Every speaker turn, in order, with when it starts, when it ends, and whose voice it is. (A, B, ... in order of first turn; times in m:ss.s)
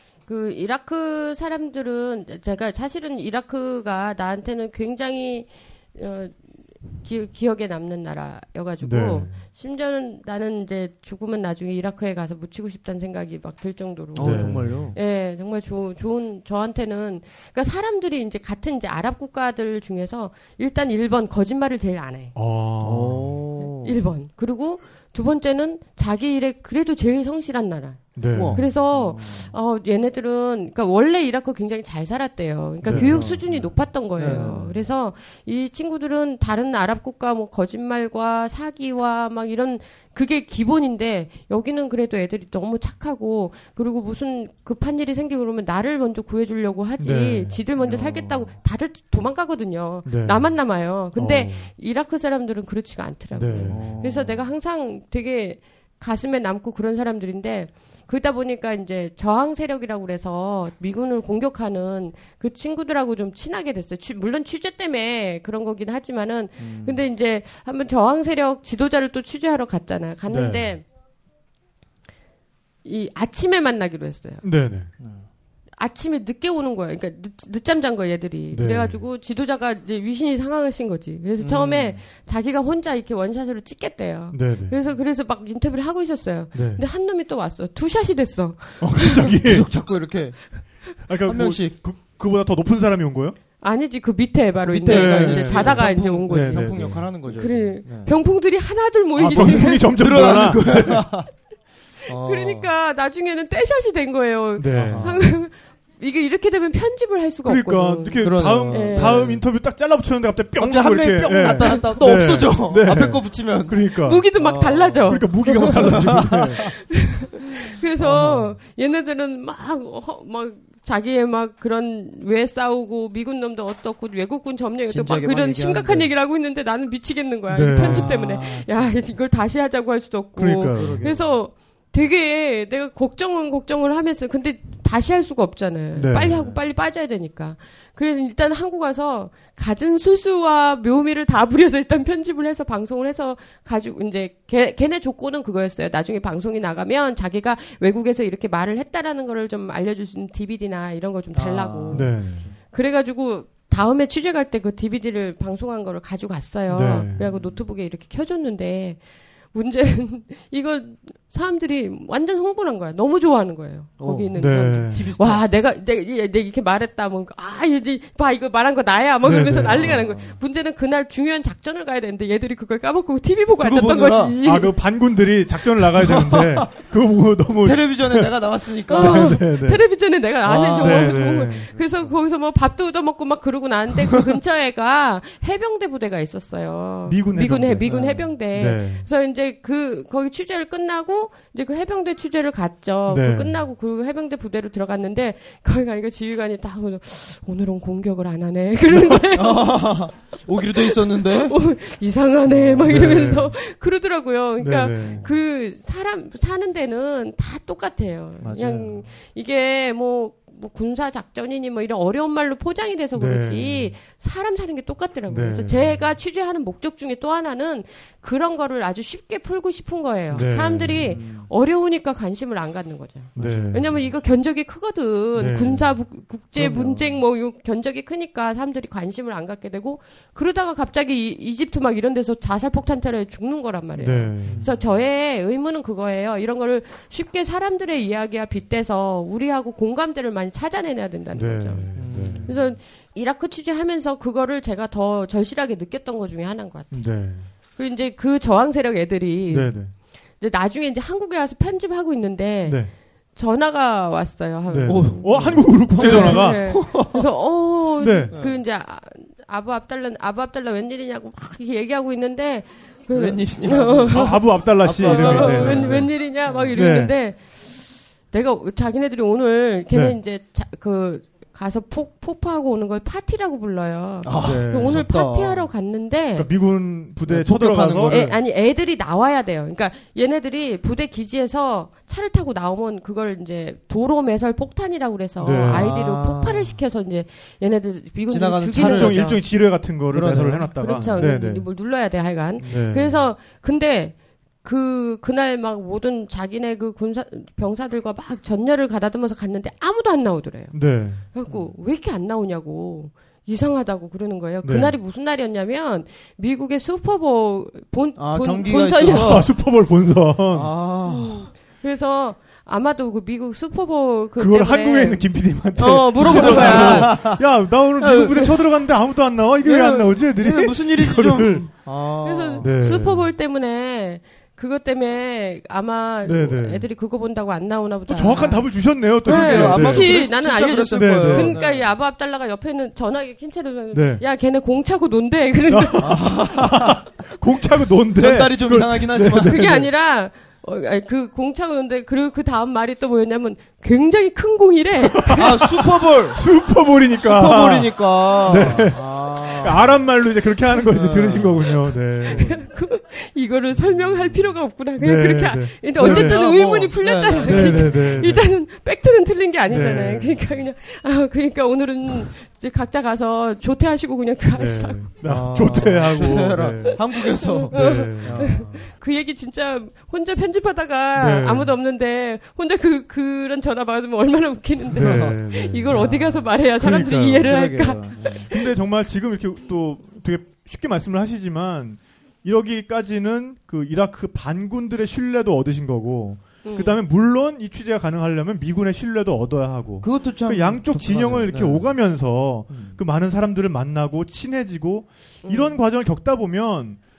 0:00.2-0:22.3 A
0:08.8-0:09.4 B
0:14.1-0:15.0 C
0:14.2-0:14.9 B
0:22.3-0:23.4 B
0:22.8-0:24.0 C
0:23.6-1:10.8 A
0:28.1-0:28.6 B
0:28.3-0:29.5 C
0:32.8-0:33.4 B
0:32.8-0:34.9 C
0:47.0-0:47.7 B
0:47.8-0:48.5 C
0:50.0-0:51.7 B
0:53.3-0:54.0 B
0:53.7-0:54.5 C
1:06.6-1:07.0 C
1:10.3-1:10.8 B
1:12.8-1:14.4 A
1:14.4-1:14.9 B
1:15.0-1:15.3 C
1:15.8-1:29.4 A
1:18.5-1:19.0 B
1:21.4-1:22.0 C
1:24.3-1:24.8 B
1:26.5-1:26.8 B
1:28.8-1:29.7 B
1:29.4-1:31.8 C
1:31.0-1:33.4 B
1:33.6-1:40.3 A
1:34.6-1:38.2 C
1:34.8-1:37.1 B
1:39.1-1:41.1 B
1:39.3-1:41.3 C
1:42.0-1:42.7 C
1:42.2-1:49.2 A
1:44.6-1:45.2 B
1:44.8-1:45.4 C
1:47.4-1:54.3 B
1:48.2-1:49.4 C
1:50.6-1:57.0 C
1:54.0-1:56.4 A
1:55.0-1:56.8 B
1:57.0-2:39.0 A
1:58.0-1:58.6 C
2:04.9-2:06.1 C
2:07.5-2:08.2 B
2:07.7-2:09.1 C
2:10.4-2:11.1 B
2:10.7-2:11.4 C
2:15.9-2:16.4 B
2:16.1-2:16.6 C
2:31.3-2:32.6 C
2:31.9-2:32.5 B
2:36.7-2:37.3 B
2:37.1-2:37.6 C
2:39.5-2:54.7 A
2:44.0-2:45.5 C
2:44.3-2:45.1 B
2:49.2-2:50.0 B
2:49.6-2:50.4 C
2:53.6-2:54.4 C
2:54.4-2:59.9 B
2:56.0-2:56.7 C
2:57.6-2:59.4 C
2:58.9-3:20.0 A
3:00.4-3:02.2 C
3:00.7-3:01.8 B
3:07.0-3:09.1 B
3:07.8-3:08.3 C
3:13.1-3:13.6 B
3:19.3-3:21.6 C
3:20.6-4:07.2 A
3:22.4-3:23.4 C
3:22.8-3:23.5 B
3:24.6-3:25.3 B
3:25.1-3:25.3 C
3:28.4-3:29.1 C
3:33.1-3:34.0 B
3:35.3-3:36.0 B
3:40.3-3:41.5 C
3:40.3-3:41.1 B
3:43.4-3:44.1 B
3:43.4-3:44.2 C
3:45.3-3:46.0 B
3:46.6-3:47.2 C
3:54.0-3:54.7 B
3:54.4-3:54.8 C
4:01.3-4:02.6 B
4:01.9-4:02.6 C
4:06.9-4:07.5 B
4:07.7-4:36.5 A
4:09.5-4:09.9 B
4:12.6-4:12.9 B
4:14.7-4:17.0 B
4:14.8-4:17.3 C
4:18.0-4:18.4 B
4:18.3-4:18.6 C
4:23.1-4:26.8 C
4:24.1-4:27.2 B
4:29.9-4:30.2 B
4:34.2-4:35.7 C
4:34.3-4:35.1 B
4:36.4-4:38.2 B
4:37.2-4:38.4 C
4:38.0-4:49.4 A
4:45.4-4:46.0 B
4:45.7-4:46.8 C
4:48.3-4:49.5 C
4:48.8-4:51.7 B
4:50.1-4:50.9 C
4:50.8-5:09.5 A
4:52.6-4:53.2 B
5:00.7-5:01.2 B
5:04.6-5:05.0 B
5:08.2-5:09.5 C
5:09.0-5:10.8 B
5:10.5-5:11.5 C
5:11.0-5:17.2 A
5:14.4-5:21.9 B
5:16.2-5:18.6 C
5:19.6-5:22.7 C
5:22.2-5:36.3 A
5:22.6-5:23.3 B
5:26.2-5:26.9 B
5:28.1-5:30.4 B
5:29.2-5:31.9 C
5:30.9-5:31.6 B
5:33.9-5:34.2 B
5:35.7-5:39.9 B
5:36.0-5:37.0 C
5:38.1-5:39.8 C
5:39.4-5:45.6 A
5:45.1-5:52.6 B
5:45.3-5:46.4 C
5:47.2-5:50.1 C
5:50.9-5:52.6 C
5:52.3-6:05.1 A
5:53.9-5:54.5 C
5:55.0-5:56.6 B
5:55.9-5:58.3 C
5:57.4-5:58.6 B
5:59.7-6:00.5 B
6:04.5-6:08.7 B
6:05.2-6:08.9 C
6:06.3-6:18.4 A
6:11.1-6:11.7 B
6:14.9-6:16.5 C
6:14.9-6:17.7 B
6:17.4-6:18.5 C
6:18.5-6:37.0 B
6:26.6-6:27.0 A
6:30.0-6:33.0 C
6:35.4-6:35.8 A